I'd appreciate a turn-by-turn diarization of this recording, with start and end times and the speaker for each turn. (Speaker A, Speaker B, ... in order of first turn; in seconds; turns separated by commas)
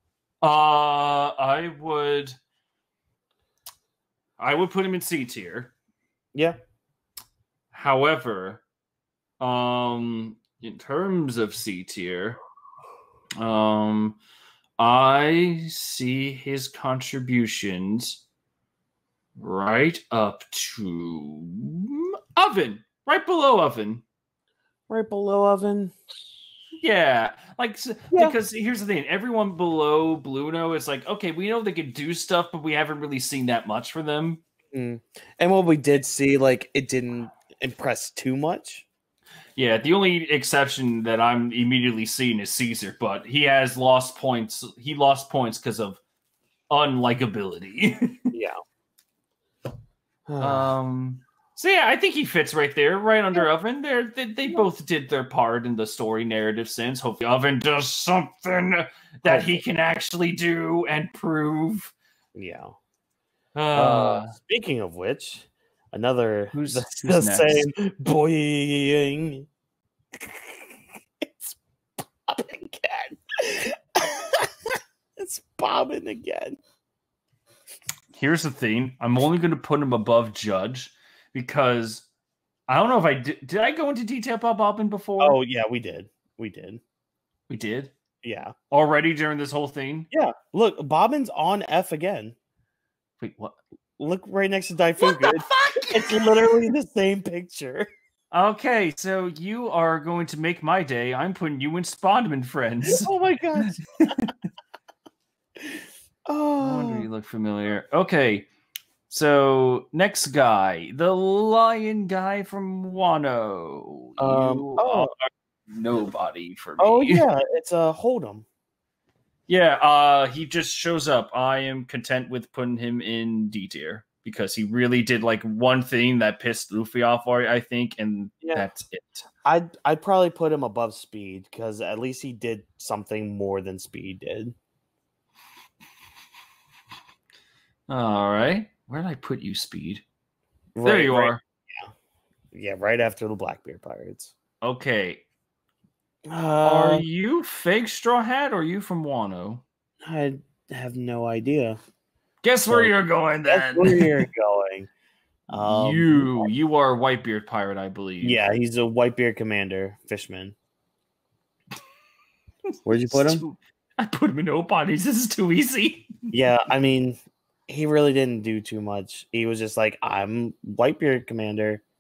Speaker A: 0.4-2.4, Speaker A: 4.4-5.7, Speaker A: 7.7-8.6, Speaker A: 9.4-12.4, Speaker A: 13.4-14.2, Speaker A: 14.8-18.2, Speaker A: 19.4-24.0, Speaker B: 24.9-25.9, Speaker A: 26.8-34.4, Speaker B: 28.1-28.4, Speaker B: 34.7-38.9, Speaker A: 39.6-46.0, Speaker A: 46.7-48.3, Speaker B: 48.3-48.6, Speaker B: 50.3-50.7, Speaker A: 50.4-61.9, Speaker B: 59.3-59.6, Speaker B: 62.4-62.8, Speaker A: 63.5-64.4, Speaker B: 63.8-69.5, Speaker A: 66.5-67.7, Speaker B: 70.2-71.6, Speaker B: 72.3-76.6, Speaker A: 78.1-82.1, Speaker A: 82.7-85.4, Speaker B: 85.2-86.8, Speaker A: 87.5-87.9, Speaker B: 88.2-88.5, Speaker A: 88.7-90.1, Speaker B: 90.1-92.4, Speaker A: 93.2-93.6, Speaker B: 94.0-97.9, Speaker A: 95.0-96.6, Speaker A: 98.3-104.3, Speaker B: 102.9-103.8, Speaker B: 106.3-107.1, Speaker A: 106.6-108.5, Speaker A: 109.1-117.2, Speaker B: 114.2-115.1, Speaker B: 116.8-118.5, Speaker A: 119.5-129.3, Speaker B: 129.4-134.6, Speaker A: 137.9-140.0, Speaker B: 140.8-141.9, Speaker A: 140.8-141.4, Speaker B: 142.5-144.3, Speaker A: 144.6-145.2, Speaker B: 146.3-147.1, Speaker A: 146.6-149.6, Speaker B: 150.0-151.8, Speaker A: 152.4-154.3, Speaker B: 153.5-154.9, Speaker B: 155.5-156.5, Speaker A: 155.6-158.4, Speaker B: 158.2-160.6, Speaker B: 162.8-163.4, Speaker A: 163.0-166.1, Speaker B: 166.3-171.8